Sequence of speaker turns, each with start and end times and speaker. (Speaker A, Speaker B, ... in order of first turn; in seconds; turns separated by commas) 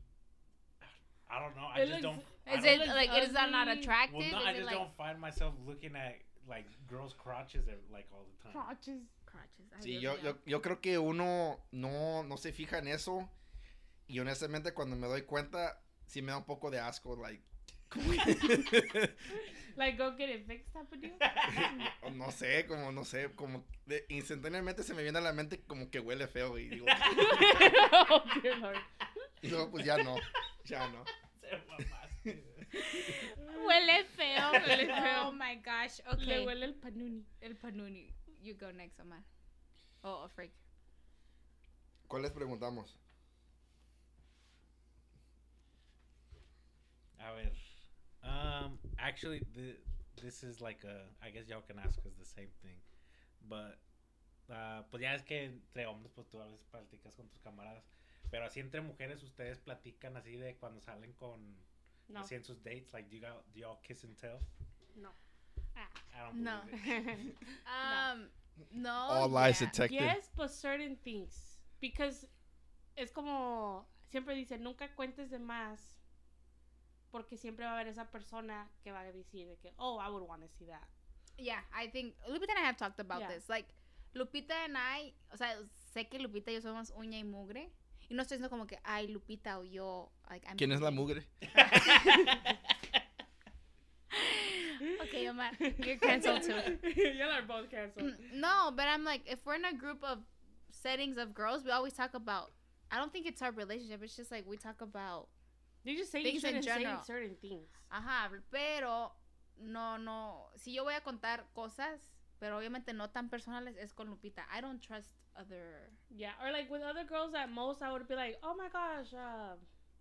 Speaker A: 0.8-3.1, Speaker B: 1.7-4.0, Speaker C: 2.5-4.9, Speaker A: 4.1-8.7, Speaker B: 8.5-9.1, Speaker C: 9.3-10.4, Speaker D: 9.8-13.3, Speaker D: 14.1-19.2, Speaker B: 19.8-21.2, Speaker A: 21.2-21.9, Speaker D: 21.5-27.6, Speaker A: 26.9-27.8, Speaker B: 27.0-28.9, Speaker D: 29.4-31.1, Speaker A: 29.9-30.2, Speaker A: 31.3-33.0, Speaker C: 32.8-36.5, Speaker B: 33.5-33.8, Speaker A: 34.4-35.0, Speaker B: 34.4-35.4, Speaker B: 36.2-37.3, Speaker C: 37.4-39.3, Speaker C: 40.0-40.6, Speaker D: 42.1-43.0, Speaker A: 47.2-47.6, Speaker A: 48.2-52.8, Speaker A: 53.4-53.8, Speaker A: 54.5-64.5, Speaker A: 66.1-67.3, Speaker C: 66.3-66.7, Speaker B: 66.8-68.1, Speaker C: 67.7-69.8, Speaker D: 69.1-70.2, Speaker B: 69.8-72.3, Speaker B: 73.0-76.0, Speaker B: 77.1-80.9, Speaker C: 81.4-91.0, Speaker D: 90.6-91.3, Speaker A: 91.5-92.4, Speaker C: 94.1-96.8, Speaker B: 95.6-98.2, Speaker C: 98.0-105.3, Speaker B: 105.8-107.8, Speaker C: 106.2-107.1, Speaker C: 107.9-116.0, Speaker B: 116.1-119.6